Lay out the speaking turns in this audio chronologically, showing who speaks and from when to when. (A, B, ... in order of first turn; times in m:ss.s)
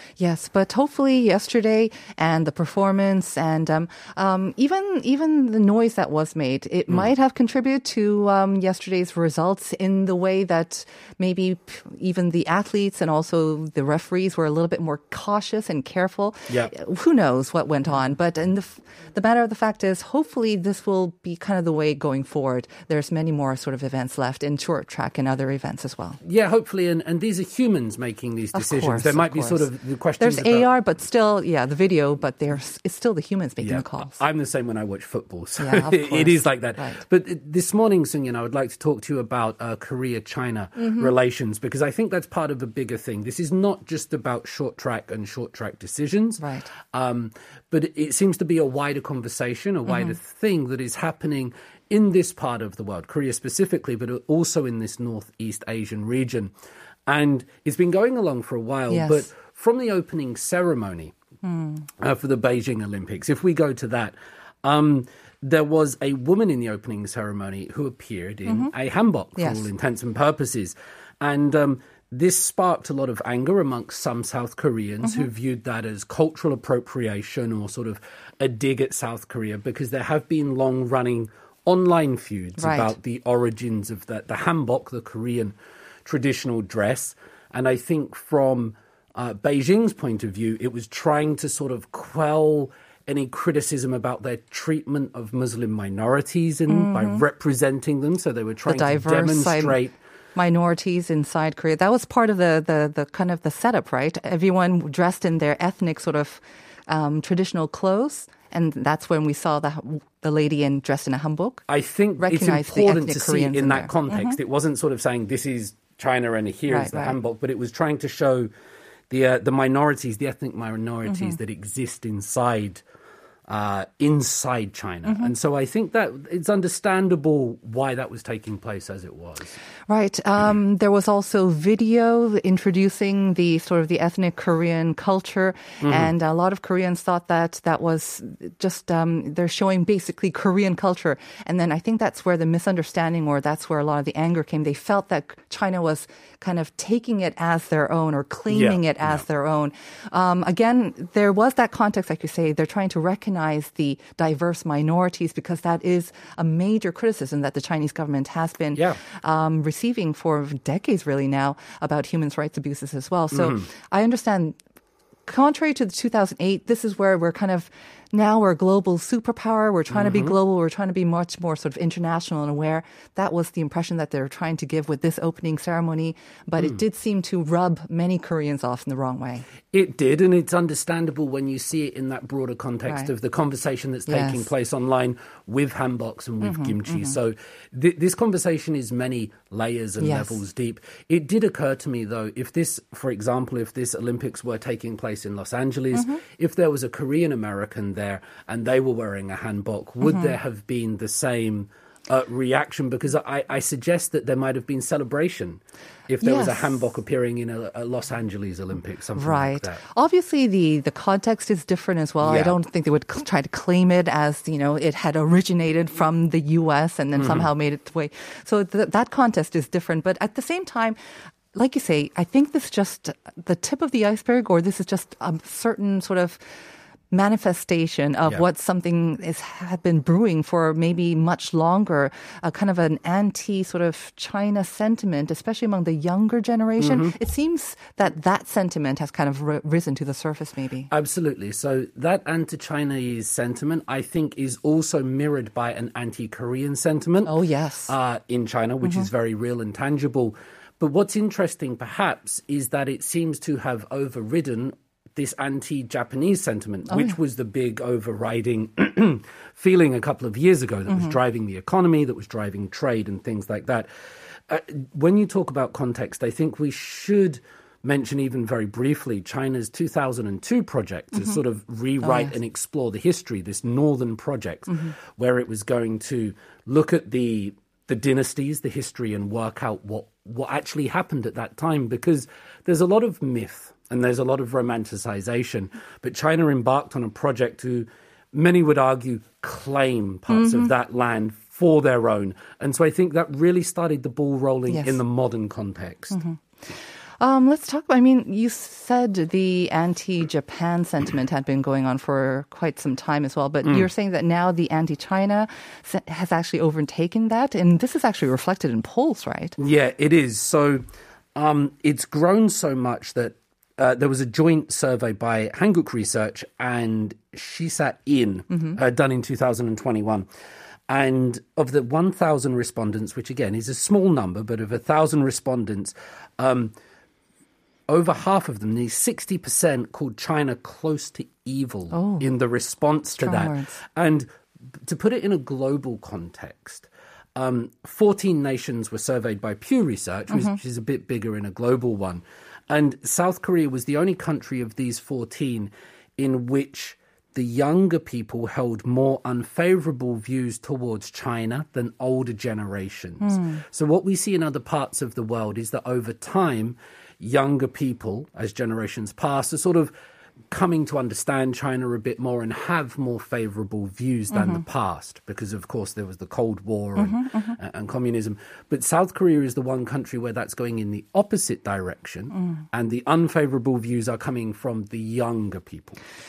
0:00.2-0:26.2 A
0:26.2-0:30.7 B
0:28.5-0:34.2 A
0:33.6-0:56.5 B
0:35.6-0:37.0 A
0:40.8-0:41.1 A
0:46.4-0:46.7 A
0:49.9-0:50.2 A
0:57.1-1:01.1 B
0:58.9-0:59.3 A
1:01.4-1:01.9 A
1:02.0-1:40.0 B
1:08.5-1:08.7 A
1:09.4-1:09.6 A
1:22.6-1:23.0 A
1:36.7-1:37.2 A
1:38.7-1:39.8 A
1:40.4-1:51.6 A
1:51.7-1:58.5 B
1:52.2-1:54.4 A
1:56.7-1:57.2 A
1:59.1-2:02.8 B
2:01.1-2:01.4 A
2:03.5-2:09.6 B
2:05.1-2:05.3 A
2:09.9-2:44.6 A
2:15.8-2:16.1 B
2:28.5-2:29.2 B
2:38.7-2:39.0 B
2:43.3-2:43.7 B
2:45.3-2:59.5 A
2:49.9-2:50.4 B
2:59.7-3:29.8 B
3:04.1-3:04.5 A
3:06.4-3:07.2 A
3:10.0-3:10.4 A
3:15.9-3:16.2 A
3:20.0-3:20.4 A
3:26.2-3:26.8 A
3:29.2-3:41.0 A
3:32.2-3:32.6 B
3:37.2-3:37.5 B
3:41.5-3:46.4 A
3:47.1-4:00.9 A
3:56.8-3:57.1 B
4:00.9-4:07.4 B
4:07.2-4:07.9 A
4:07.9-4:23.9 B
4:16.9-4:17.2 A
4:24.5-4:56.2 B
4:32.0-4:32.3 A
4:50.3-4:50.7 A
4:54.7-4:55.0 A
4:56.1-4:56.4 A
4:57.2-5:09.6 A
5:03.6-5:03.9 B
5:09.6-5:10.8 B
5:11.4-5:20.3 B
5:18.5-5:18.8 A
5:20.9-5:26.8 B
5:27.9-5:34.3 B
5:31.9-5:32.3 A
5:33.1-5:33.8 A
5:34.8-5:59.9 B
5:40.3-5:40.6 A
5:53.2-5:53.6 A
6:00.5-6:16.0 B
6:04.3-6:04.6 A
6:07.0-6:07.6 A